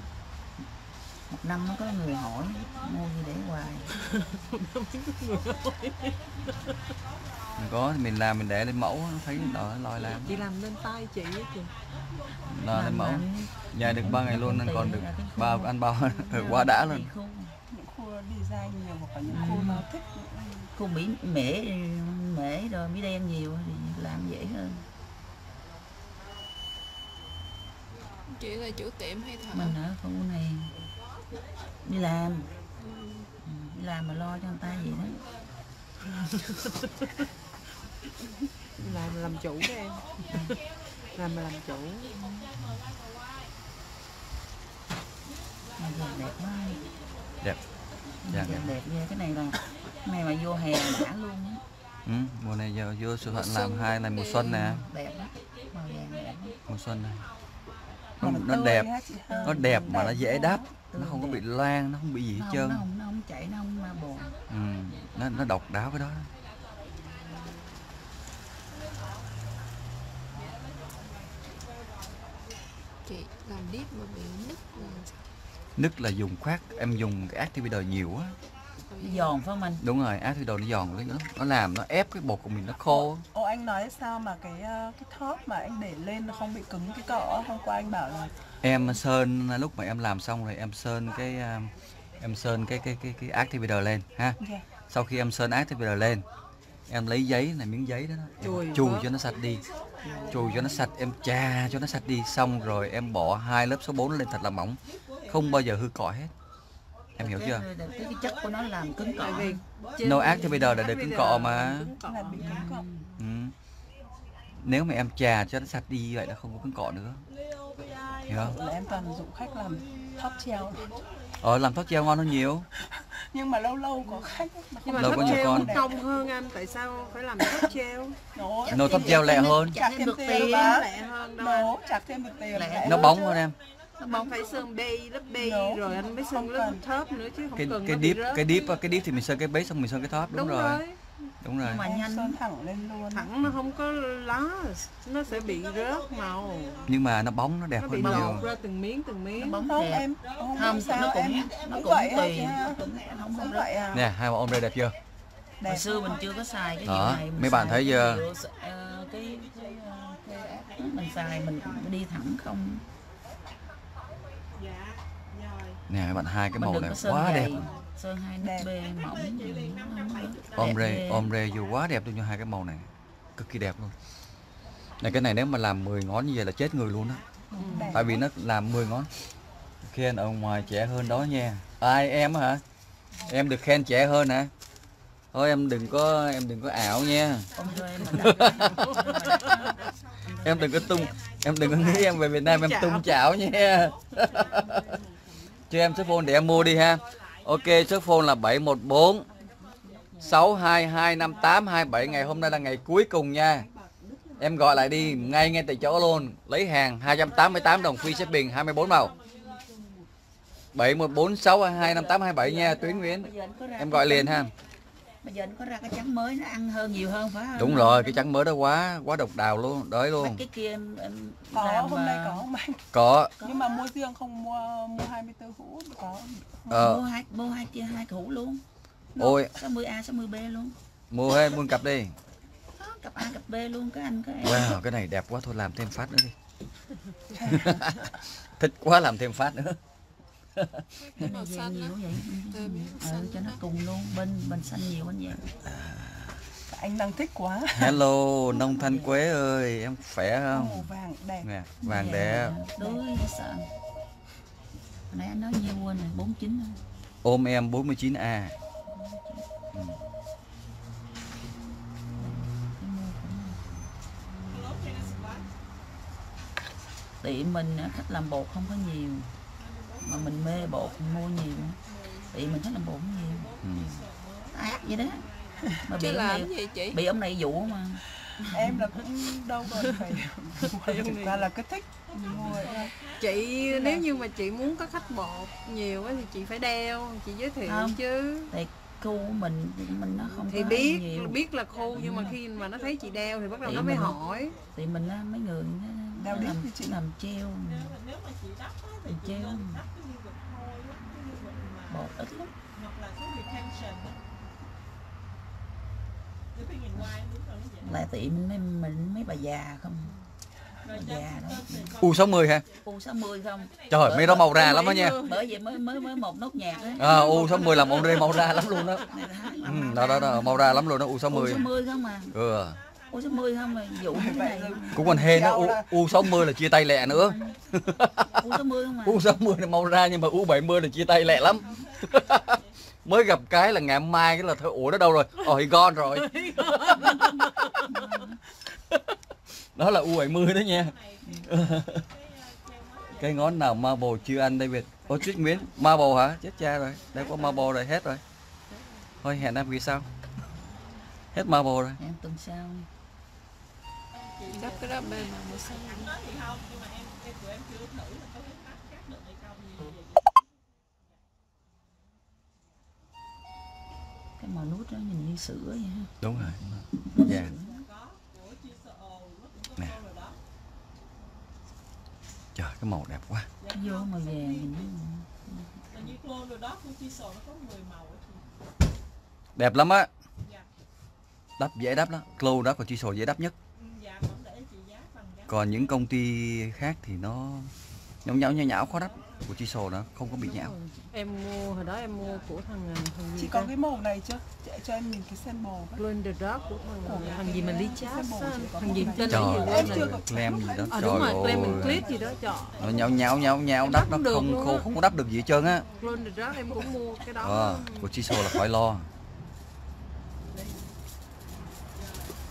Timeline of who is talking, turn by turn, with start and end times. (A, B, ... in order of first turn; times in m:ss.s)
0:01.3-0:03.9 A
0:04.0-0:06.7 B
0:07.6-0:10.4 C
0:10.1-0:11.8 B
0:12.5-0:17.1 C
0:12.7-0:17.5 A
0:17.7-0:20.7 D
0:19.3-0:19.9 A
0:20.8-0:24.9 A
0:28.3-0:29.8 E
0:29.5-0:30.7 A
0:31.8-0:32.5 A
0:32.8-0:33.3 E
0:33.4-0:35.2 A
0:36.2-0:37.0 B
0:38.8-0:40.6 B
0:40.3-0:40.6 A
0:41.1-0:42.2 B
0:45.8-0:46.8 A
0:48.2-0:51.6 A
0:48.3-0:48.8 C
0:52.1-0:54.9 C
0:53.3-0:54.6 E
0:54.4-0:56.6 A
0:56.7-0:57.3 C
0:58.2-0:58.9 C
0:58.2-1:00.7 D
0:59.3-1:01.4 A
0:59.4-1:02.8 C
1:02.4-1:04.4 A
1:04.5-1:06.3 C
1:13.1-1:15.1 E
1:15.8-1:18.4 C
1:18.9-1:19.3 E
1:19.0-1:19.8 A
1:19.8-1:23.2 C
1:22.9-1:28.4 D
1:28.6-1:34.4 C
1:34.4-1:34.7 D
1:34.9-1:36.3 C
1:36.9-1:39.7 C
1:38.4-1:39.1 B
1:40.3-1:40.8 D
1:40.3-1:40.8 A
1:40.3-1:46.3 C
1:47.2-1:49.6 A
1:47.2-1:47.7 C
1:49.2-1:52.4 B
1:50.0-1:51.9 C
1:52.0-1:52.9 D
1:52.3-1:53.1 A
1:53.2-1:53.5 C
1:54.5-1:57.3 C
1:58.3-1:58.6 C
1:58.3-2:00.9 D
2:01.4-2:02.7 C
2:02.9-2:06.0 D
2:04.8-2:08.3 B
2:05.0-2:05.8 C
2:08.3-2:10.9 D
2:08.7-2:10.8 A
2:08.7-2:09.8 C
2:09.8-2:11.8 B
2:11.4-2:13.4 D
2:12.5-2:13.2 A
2:12.8-2:13.6 C
2:14.0-2:14.4 A
2:14.0-2:18.6 B
2:15.4-2:16.8 D
2:17.6-2:20.8 C
2:20.3-2:21.0 B
2:21.4-2:21.9 C
2:21.6-2:22.4 A
2:21.7-2:23.3 D
2:23.1-2:26.9 B
2:26.9-2:28.5 C
2:27.8-2:29.7 B
2:28.0-2:28.4 A
2:29.3-2:33.8 A
2:29.6-2:34.1 D
2:33.9-2:35.0 C
2:35.6-2:36.3 D
2:35.6-2:42.8 A
2:36.8-2:38.3 C
2:45.9-2:47.6 C
2:46.6-2:51.3 A
2:48.4-2:48.8 D
2:50.5-2:54.0 C
2:55.0-2:57.3 C
2:57.6-2:58.0 B
2:57.6-2:58.2 D
2:57.9-2:59.1 C
2:59.8-3:02.6 C
3:03.3-3:04.5 C
3:05.3-3:08.7 C
3:07.6-3:11.2 A
3:08.3-3:09.7 B
3:10.4-3:15.0 C
3:11.9-3:13.1 B
3:15.7-3:19.3 C
3:19.6-3:20.4 A
3:20.2-3:23.7 C
3:24.4-3:29.1 C
3:24.6-3:26.3 A
3:30.7-3:34.5 C
3:31.7-3:34.5 A
3:35.2-3:38.2 A
3:37.6-3:40.4 C
3:40.2-3:42.5 A
3:41.5-3:42.8 D
3:42.9-3:43.4 C
3:43.4-3:43.9 A
3:43.4-3:46.8 D
3:46.7-3:48.6 A
3:46.7-3:47.0 C
3:49.2-3:49.5 D
3:49.2-3:49.5 C
3:49.5-3:50.8 A
3:51.1-3:52.2 C
3:52.8-3:54.8 A
3:54.4-3:56.3 C
3:57.3-3:58.0 D
3:57.5-3:59.8 C
4:00.6-4:00.9 C
4:01.2-4:03.6 E
4:01.2-4:05.4 A
4:05.5-4:06.4 C
4:06.7-4:08.0 D
4:07.8-4:10.9 C
4:08.5-4:09.1 A
4:10.5-4:11.5 D
4:11.4-4:12.6 C
4:11.8-4:13.7 A
4:15.1-4:16.8 A
4:17.2-4:18.6 C
4:18.9-4:19.5 A
4:22.2-4:23.7 A
4:24.7-4:25.3 A
4:27.2-4:29.3 A
4:30.0-4:33.6 A
4:33.6-4:34.0 C
4:34.5-4:35.3 A
4:35.9-4:38.9 A
4:36.0-4:37.0 E
4:38.3-4:43.0 D
4:40.6-4:41.4 B
4:43.2-4:48.5 B
4:47.6-4:48.0 A
4:48.5-4:51.4 A
4:50.5-4:54.6 B
4:52.0-4:52.4 A
4:53.6-4:54.2 A
4:54.7-4:58.0 A
4:56.2-4:57.0 D
4:59.0-4:59.9 A
5:01.8-5:02.5 A
5:07.8-5:10.1 A
5:10.8-5:12.0 A
5:12.0-5:12.6 C
5:12.8-5:22.4 A
5:13.9-5:15.2 C
5:14.5-5:15.6 B
5:17.0-5:19.1 C
5:19.6-5:21.7 C
5:22.3-5:22.8 C
5:23.1-5:25.1 A
5:24.1-5:26.4 D
5:24.9-5:37.4 C
5:27.0-5:27.6 A
5:28.4-5:29.3 A
5:36.1-5:38.1 B
5:37.8-5:38.4 A
5:38.9-5:39.2 C
5:39.8-5:42.1 C
5:43.1-5:48.2 C
5:49.2-5:50.1 C
5:51.3-5:52.0 C
5:52.0-5:52.9 A
5:54.5-5:56.2 E
6:04.4-6:07.9 A
6:06.2-6:07.6 C
6:09.8-6:10.0 C
6:12.6-6:13.6 C
6:13.7-6:16.2 A
6:19.6-6:20.1 C
6:21.6-6:23.6 C
6:25.5-6:27.7 C
6:28.2-6:30.8 C
6:30.4-6:33.7 B
6:33.4-6:36.0 D
6:36.0-6:40.2 B
6:37.0-6:42.8 D
6:39.3-6:42.1 C
6:40.9-6:42.9 B
6:42.8-6:45.9 C
6:43.8-6:45.0 B
6:46.0-6:48.1 B
6:47.4-6:49.1 C